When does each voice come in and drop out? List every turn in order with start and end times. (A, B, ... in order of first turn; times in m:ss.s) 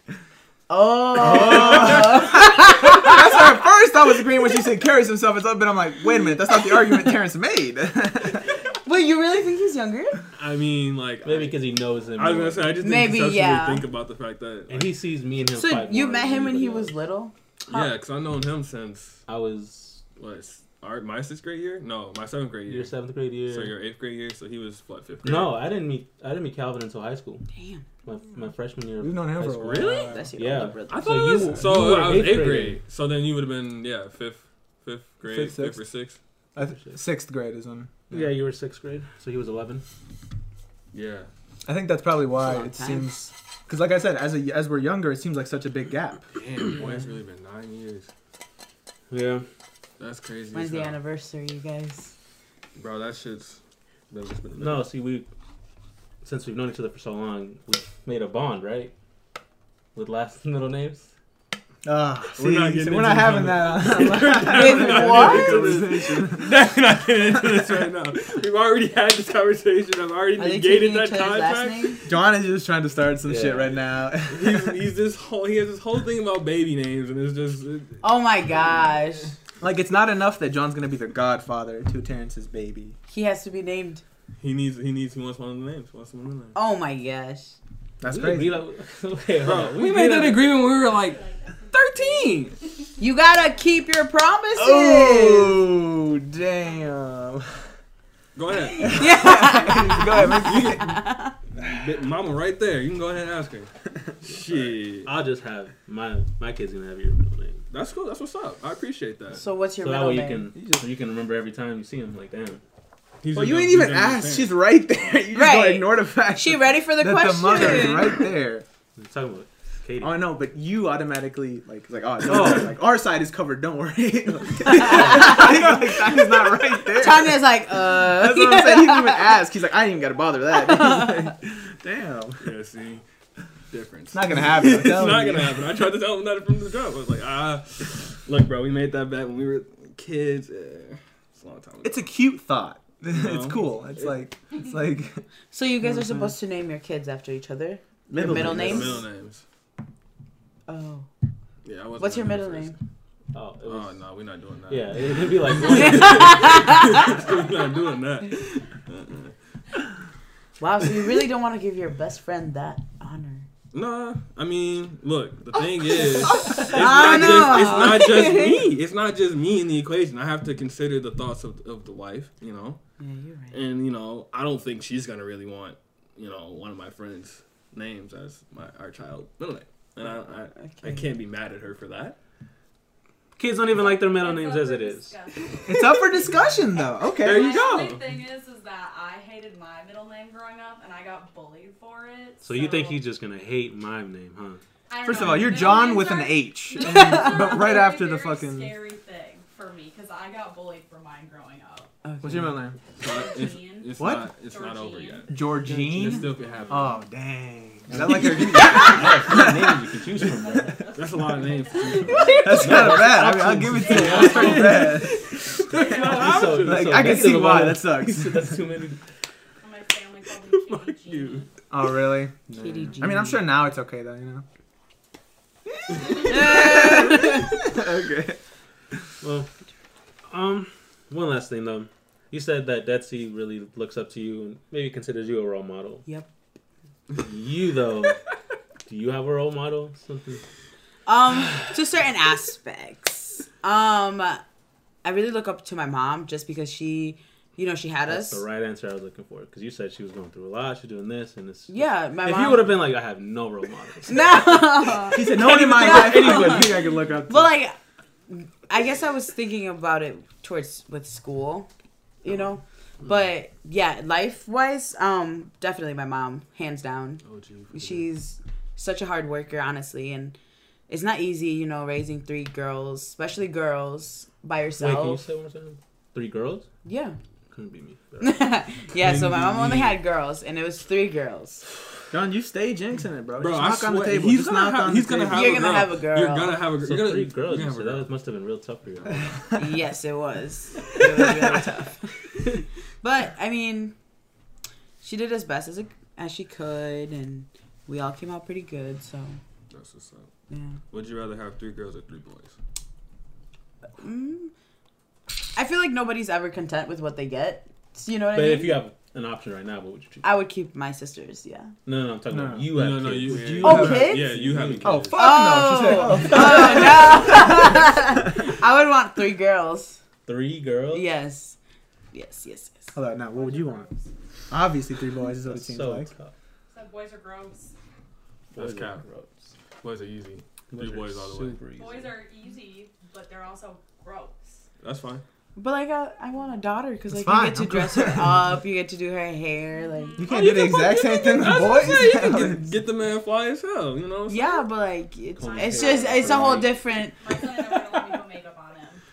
0:00.7-0:03.4 A
0:01.1-0:08.5 B
0:08.8-0:10.2 A
0:10.3-0:11.6 C
0:11.2-0:12.7 D
0:12.2-0:14.9 C
0:12.8-0:13.8 A
0:14.7-0:17.0 D
0:15.5-0:17.9 A
0:17.7-0:19.2 C
0:19.3-0:20.0 D
0:20.2-0:22.9 C
0:22.7-0:23.7 D
0:23.5-0:25.5 C
0:25.2-0:27.4 D
0:27.5-0:27.8 A
0:28.0-0:32.8 D
0:29.0-0:30.3 B
0:29.6-0:30.1 C
0:30.0-0:31.2 A
0:30.9-0:36.2 C
0:35.2-0:35.8 B
0:36.5-0:38.3 B
0:36.6-0:37.0 D
0:38.1-0:39.8 D
0:40.9-0:41.3 C
0:41.6-0:46.2 B
0:42.4-0:43.1 A
0:46.3-0:48.1 C
0:49.1-0:49.4 D
0:50.0-0:51.0 C
0:50.5-0:52.1 A
0:52.8-0:54.8 C
0:54.6-0:55.3 D
0:56.2-0:58.9 D
0:59.9-1:01.1 D
1:01.8-1:06.5 B
1:02.3-1:12.1 C
1:04.4-1:05.6 A
1:10.4-1:12.0 A
1:12.0-1:14.8 B
1:13.2-1:13.8 D
1:14.3-1:18.0 C
1:18.0-1:19.3 A
1:19.6-1:22.9 B
1:23.1-1:24.0 A
1:24.4-1:26.6 C
1:26.5-1:27.6 A
1:28.0-1:28.6 B
1:28.0-1:30.6 D
1:29.4-1:32.6 C
1:30.6-1:33.9 E
1:33.0-1:35.6 A
1:34.6-1:37.6 B
1:36.6-1:36.9 E
1:38.3-1:39.2 C
1:38.8-1:41.0 B
1:38.9-1:41.4 A
1:40.2-1:41.0 C
1:41.6-1:41.9 B
1:41.6-1:45.1 C
1:45.0-1:47.6 D
1:47.7-1:49.4 C
1:49.3-1:50.5 A
1:49.8-1:52.6 D
1:50.6-1:50.8 B
1:53.2-1:54.5 C
1:53.3-1:58.6 B
1:55.3-1:58.2 A
1:59.0-2:00.2 D
2:00.0-2:12.4 B
2:02.2-2:02.7 D
2:04.7-2:05.8 A
2:06.9-2:09.4 A
2:10.5-2:11.3 A
2:12.4-2:13.0 C
2:13.7-2:22.0 C
2:14.1-2:15.7 B
2:21.8-2:25.2 B
2:23.1-2:24.1 C
2:25.5-2:29.0 A
2:25.8-2:26.3 B
2:28.1-2:29.0 B
2:28.2-2:29.4 C
2:30.7-2:31.1 A
2:31.6-2:32.7 C
2:32.0-2:32.8 A
2:33.3-2:34.0 D
2:33.6-2:39.3 C
2:34.7-2:37.1 D
2:35.9-2:37.0 A
2:40.6-2:43.4 A
2:43.7-2:52.8 C
2:45.9-2:48.7 A
2:53.0-2:53.6 A
2:53.5-3:02.2 C
3:00.5-3:01.1 A
3:03.4-3:05.2 D
3:03.7-3:13.0 E
3:05.7-3:07.9 B
3:07.2-3:08.1 C
3:12.4-3:14.6 D
3:14.9-3:21.9 E
3:15.0-3:18.8 B
3:16.8-3:17.5 A
3:22.0-3:22.6 A
3:22.2-3:22.8 B
3:23.0-3:27.0 C
3:23.0-3:25.3 E
3:24.0-3:24.3 B
3:25.3-3:30.6 B
3:25.4-3:26.7 D
3:27.9-3:30.8 D
3:28.1-3:29.1 A
3:30.2-3:33.1 E
3:30.9-3:32.4 C
3:32.1-3:32.6 A
3:32.4-3:35.3 B
3:32.5-3:35.0 D
3:33.7-3:36.2 E
3:34.1-3:37.2 C
3:35.7-3:39.0 D
3:36.4-3:38.6 B
3:39.6-3:41.5 E
3:40.6-3:41.4 C
3:41.7-3:44.4 B
3:42.5-3:43.4 A
3:45.9-3:48.4 B
3:46.1-3:47.6 A
3:49.2-3:49.5 D
3:50.3-3:56.0 D
3:57.1-3:58.2 D
3:58.9-4:00.4 D
4:01.0-4:04.4 A
4:05.0-4:08.4 A
4:08.1-4:14.6 D
4:11.7-4:12.7 A
4:14.1-4:17.7 A
4:15.1-4:17.5 B
4:18.3-4:21.7 A
4:22.2-4:27.2 A
4:27.2-4:28.1 C
4:27.7-4:30.4 A
4:30.9-4:35.2 A
4:34.8-4:36.7 D
4:36.8-4:37.2 A
4:37.5-4:38.4 D
4:38.2-4:41.7 A
4:39.0-4:40.0 C
4:42.1-4:45.7 B
4:43.4-4:48.1 C
4:45.3-4:46.6 A
4:46.8-4:49.3 D
4:49.5-4:53.9 A
4:55.0-4:59.4 A
4:59.7-5:00.3 C
5:00.5-5:00.8 A
5:00.9-5:02.5 C
5:04.0-5:04.5 A
5:05.5-5:08.8 A
5:08.3-5:10.2 D
5:10.2-5:11.7 A
5:11.8-5:15.1 D
5:12.3-5:12.7 B
5:12.7-5:15.2 C
5:13.2-5:14.2 B
5:13.6-5:14.3 A
5:14.8-5:18.2 B
5:15.1-5:20.0 A
5:16.3-5:16.8 D
5:20.2-5:21.1 D
5:20.9-5:21.6 A
5:22.1-5:22.9 A
5:22.9-5:23.9 B
5:23.3-5:24.1 E
5:24.5-5:26.1 B
5:25.4-5:26.3 D
5:26.7-5:27.7 E
5:28.5-5:29.4 D
5:28.6-5:29.0 C
5:29.8-5:31.6 C
5:30.7-5:32.2 D
5:31.7-5:34.6 E
5:34.8-5:35.2 C
5:35.6-5:40.3 A
5:37.1-5:38.4 B
5:39.8-5:40.7 E
5:40.2-5:42.7 B
5:40.4-5:44.6 C
5:44.3-5:47.2 A
5:45.4-5:46.8 D
5:45.5-5:46.4 E
5:47.1-5:49.0 E